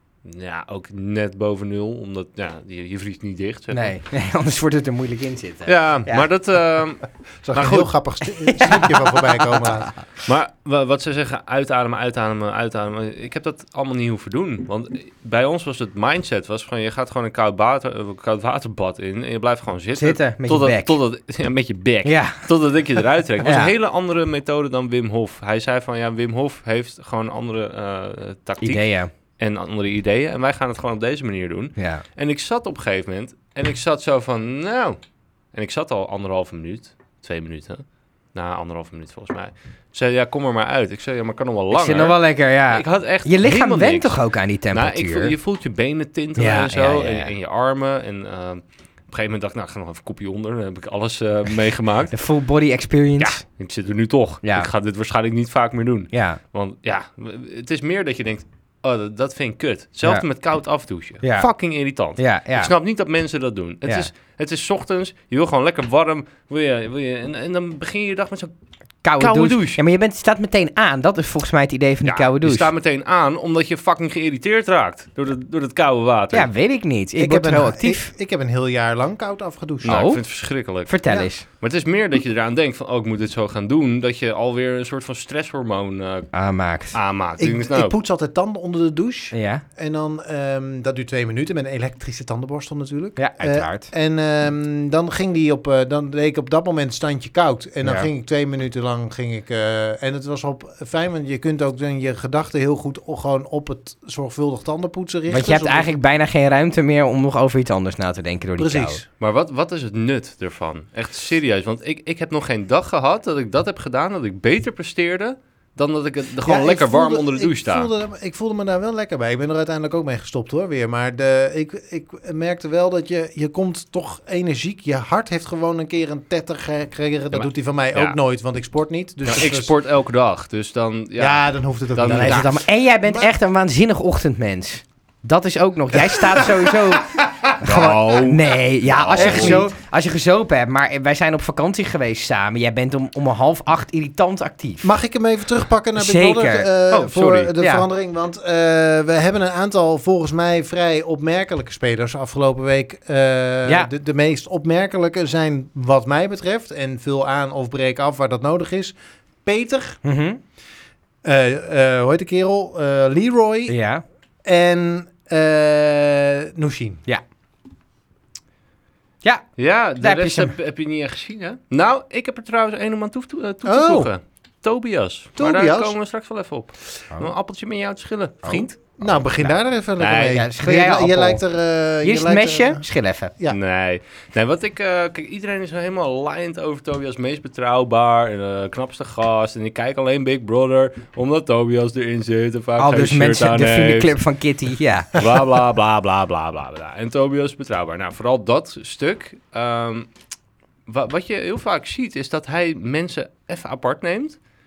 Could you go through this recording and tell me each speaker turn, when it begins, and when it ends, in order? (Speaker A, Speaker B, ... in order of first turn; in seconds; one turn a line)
Speaker A: 0.2-3.9
Speaker B: 3.7-6.3
Speaker A: 5.7-7.9
Speaker C: 7.4-9.9
Speaker B: 8.4-9.9
Speaker A: 10.2-28.8
Speaker B: 19.9-20.9
Speaker B: 22.0-22.4
Speaker B: 23.4-23.7
Speaker B: 28.6-29.1
Speaker A: 29.4-35.0
Speaker B: 31.8-32.0
Speaker A: 35.5-42.2
Speaker B: 41.7-45.3
Speaker A: 42.7-44.2
Speaker A: 44.7-52.1
Speaker B: 46.4-47.3
Speaker B: 52.1-53.4
Speaker A: 53.2-68.5
Speaker B: 54.4-54.7
Speaker B: 56.1-56.4
Speaker B: 61.2-61.5
Speaker B: 62.2-62.7
Speaker B: 69.0-72.7
Speaker A: 69.2-69.8
Speaker A: 72.0-76.5
Speaker B: 76.3-78.1
Speaker C: 77.2-80.0
Speaker A: 79.8-86.3
Speaker B: 79.8-80.2
Speaker B: 80.8-81.4
Speaker B: 86.3-87.0
Speaker A: 86.9-87.9
Speaker C: 87.4-105.9
Speaker B: 89.3-89.6
Speaker B: 93.2-93.9
Speaker B: 97.8-98.1
Speaker B: 105.3-109.0
Speaker C: 108.6-109.0
Speaker A: 109.2-117.9
Speaker C: 116.4-129.7
Speaker A: 127.3-128.2
Speaker A: 129.2-132.6
Speaker C: 131.2-133.3
Speaker B: 132.1-144.9
Speaker C: 136.1-138.0
Speaker A: 137.5-139.6
Speaker C: 139.1-139.7
Speaker C: 144.8-160.0
Speaker B: 145.9-146.7
Speaker A: 146.9-147.5
Speaker B: 147.6-147.8
Speaker B: 160.0-160.4
Speaker C: 161.2-163.8
Speaker B: 163.7-164.0
Speaker C: 164.4-167.0
Speaker A: 169.6-179.0
Speaker B: 170.0-170.5
Speaker C: 173.6-174.1
Speaker C: 175.4-175.9
Speaker B: 178.4-179.5
Speaker C: 179.0-182.8
Speaker A: 180.0-180.4
Speaker B: 180.3-181.4
Speaker B: 182.0-183.3
Speaker A: 183.5-194.1
Speaker B: 192.8-195.2
Speaker A: 195.1-200.1
Speaker A: 200.9-204.4